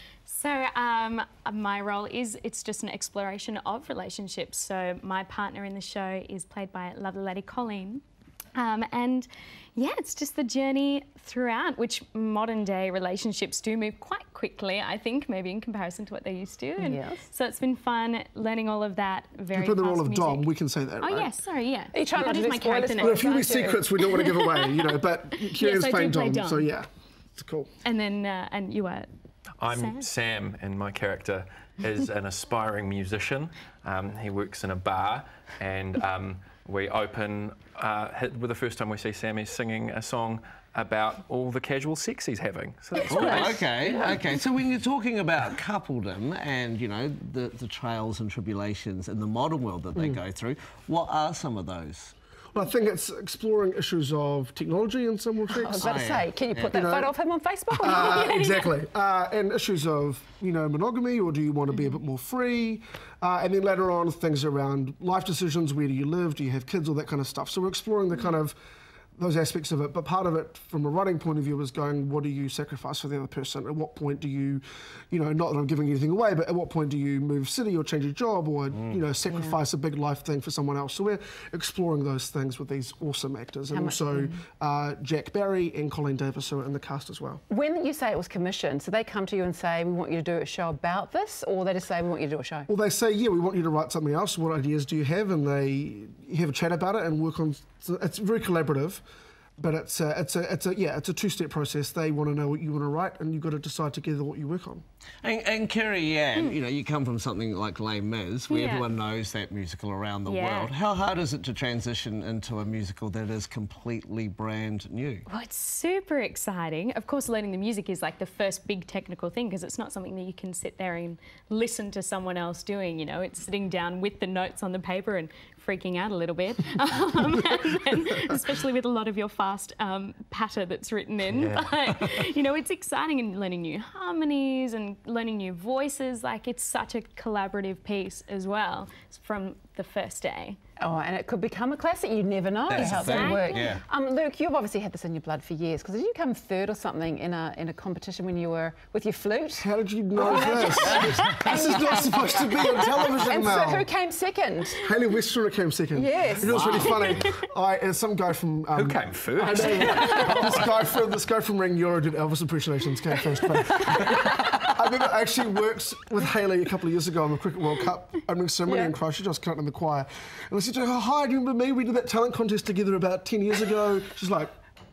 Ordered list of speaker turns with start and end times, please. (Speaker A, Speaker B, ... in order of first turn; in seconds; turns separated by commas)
Speaker A: 0.3-8.0, Speaker A: 8.6-20.5, Speaker B: 16.8-17.3, Speaker C: 19.5-21.3, Speaker A: 21.0-24.9, Speaker B: 21.9-23.8, Speaker C: 23.0-27.7, Speaker A: 25.5-26.7, Speaker A: 27.8-29.1, Speaker D: 29.6-43.6, Speaker A: 29.7-30.1, Speaker B: 42.9-43.5, Speaker E: 43.0-52.1, Speaker C: 52.5-55.9, Speaker B: 55.6-58.2, Speaker E: 55.8-56.8, Speaker C: 56.7-57.1, Speaker C: 57.7-68.5, Speaker A: 58.2-58.7, Speaker C: 69.2-87.4, Speaker B: 79.3-79.6, Speaker B: 83.7-84.4, Speaker B: 87.5-92.7, Speaker C: 92.7-99.0, Speaker C: 99.6-104.8, Speaker E: 105.2-115.2, Speaker A: 108.5-108.9, Speaker A: 110.3-110.7, Speaker A: 115.3-140.6, Speaker D: 131.3-131.8, Speaker B: 140.8-154.8, Speaker E: 142.7-143.8, Speaker A: 143.1-143.5, Speaker C: 149.6-153.9, Speaker E: 150.5-151.2, Speaker C: 154.8-174.5, Speaker B: 155.9-156.6, Speaker E: 156.4-157.2, Speaker A: 156.8-157.2, Speaker D: 158.8-160.8, Speaker B: 163.8-164.1, Speaker B: 168.7-168.9